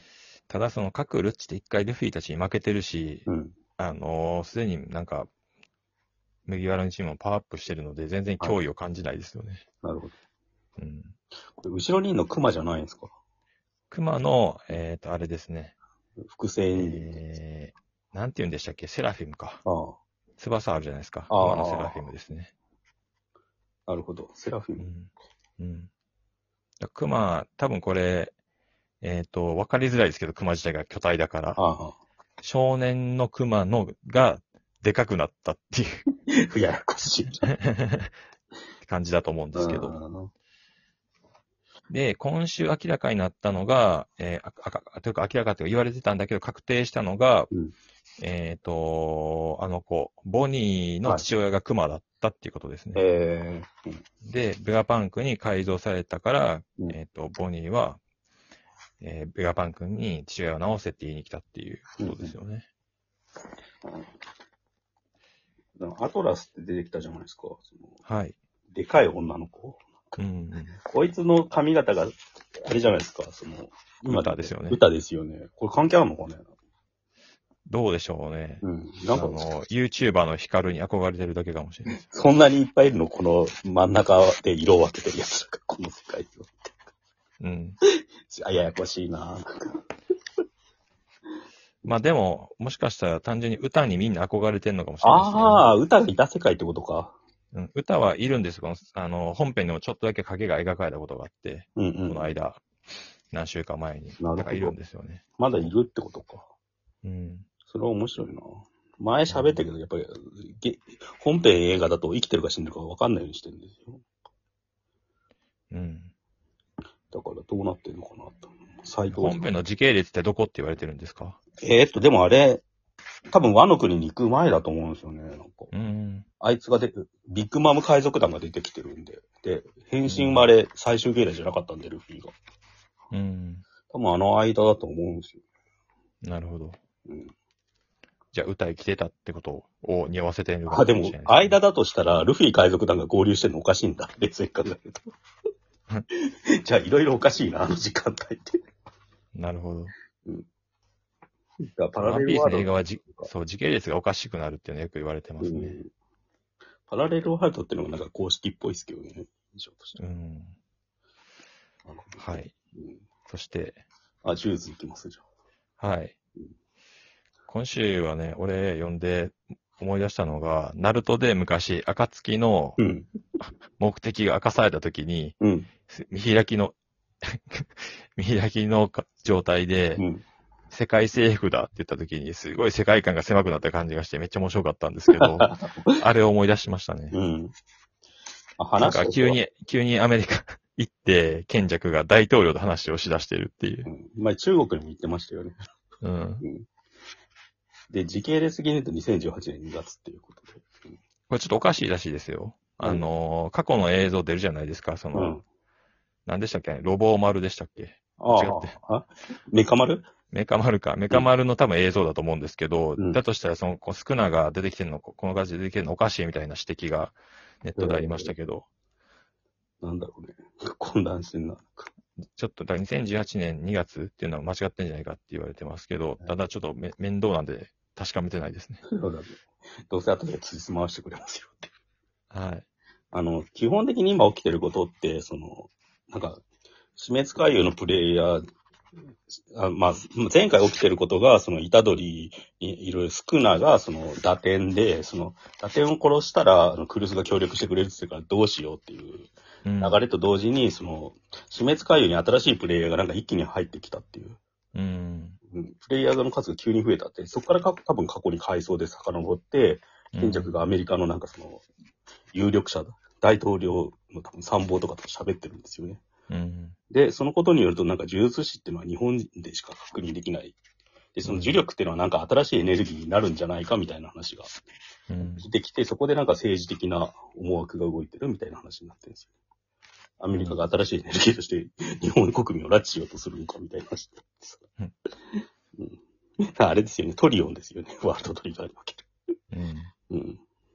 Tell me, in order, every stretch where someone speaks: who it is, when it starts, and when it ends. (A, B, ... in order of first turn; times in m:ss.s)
0:00.5-0:03.3 A
0:03.3-0:03.6 B
0:03.8-0:05.3 A
0:06.4-0:09.6 A
0:09.8-0:10.1 B
0:10.8-0:11.1 A
0:11.6-0:13.1 B
0:13.9-0:15.7 A
0:16.2-0:17.2 B
0:16.8-0:19.6 A
0:19.6-0:20.0 B
0:20.4-0:22.5 A
0:21.3-0:22.1 B
0:23.9-0:24.9 B
0:24.8-0:25.9 A
0:26.8-0:28.3 A
0:29.0-0:31.6 A
0:31.6-0:32.0 B
0:32.4-0:36.0 A
0:36.3-0:37.5 B
0:37.4-0:38.1 A
0:38.8-0:40.0 A
0:39.5-0:40.3 B
0:41.9-0:47.5 A
0:48.2-0:53.0 A
0:52.9-0:54.0 B
0:54.2-0:58.0 A
0:59.0-1:02.6 A
1:02.0-1:02.3 B
1:03.8-1:04.1 B
1:05.8-1:07.9 B
1:08.0-1:08.4 A
1:08.7-1:10.2 B
1:10.2-1:10.8 A
1:10.8-1:16.5 B
1:14.0-1:14.8 A
1:17.7-1:22.0 A
1:18.6-1:19.4 B
1:21.9-1:26.7 B
1:27.4-1:27.8 A
1:28.3-1:29.8 B
1:31.8-1:35.7 A
1:35.0-1:37.2 B
1:37.5-1:42.6 A
1:41.8-1:42.3 B
1:43.3-1:45.7 A
1:44.2-1:44.8 B
1:45.4-1:46.5 B
1:47.0-1:47.4 A
1:47.7-1:54.0 B
1:49.3-1:49.6 A
1:55.7-1:56.1 A
1:57.1-1:59.5 B
1:59.1-2:01.4 A
2:01.6-2:02.6 B
2:03.3-2:05.7 B
2:05.7-2:06.2 A
2:06.4-2:12.3 B
2:10.0-2:10.5 A
2:13.1-2:13.6 A
2:13.9-2:15.4 B
2:16.2-2:16.8 A
2:17.1-2:17.3 B
2:18.3-2:21.6 A
2:20.7-2:25.1 B
2:26.2-2:28.6 B
2:29.3-2:29.9 A
2:31.7-2:33.3 B
2:32.0-2:35.8 A
2:35.4-2:35.9 B
2:36.9-2:40.0 B
2:40.0-2:40.5 A
2:41.8-2:43.0 B
2:42.2-2:42.5 A
2:43.3-2:43.8 A
2:44.2-2:45.2 B
2:45.8-2:46.1 A
2:47.5-2:52.8 A
2:52.8-2:53.1 B
2:53.4-2:55.4 A
2:55.4-2:55.7 B
2:55.9-3:00.0 A
3:00.0-3:00.2 B
3:00.7-3:07.2 A
3:05.1-3:06.0 B
3:07.1-3:07.5 B
3:08.6-3:09.4 B
3:08.8-3:13.9 A
3:13.8-3:15.6 B
3:16.0-3:16.4 A
3:16.4-3:16.7 B
3:17.9-3:20.9 B
3:21.3-3:25.4 A
3:25.1-3:25.4 B
3:26.2-3:28.7 A
3:28.2-3:30.1 B
3:30.3-3:38.6 A
3:33.0-3:33.2 B
3:37.8-3:38.3 B
3:39.8-3:41.9 B
3:42.3-3:48.8 A
3:48.9-3:51.7 B
3:52.3-3:52.6 A
3:53.1-3:56.4 B
3:57.0-3:58.4 B
3:59.5-4:14.4 B
4:09.6-4:10.0 A
4:14.7-4:15.4 A
4:15.5-4:21.6 B
4:20.1-4:20.6 A
4:22.3-4:26.0 B
4:26.3-4:26.7 A
4:26.9-4:30.6 B
4:31.2-4:34.6 B
4:31.2-4:31.6 A
4:35.1-4:35.5 A
4:35.4-4:39.3 B
4:40.2-4:44.6 B
4:40.3-4:40.6 A
4:45.8-4:49.0 B
4:49.5-4:49.9 A
4:50.1-4:50.4 B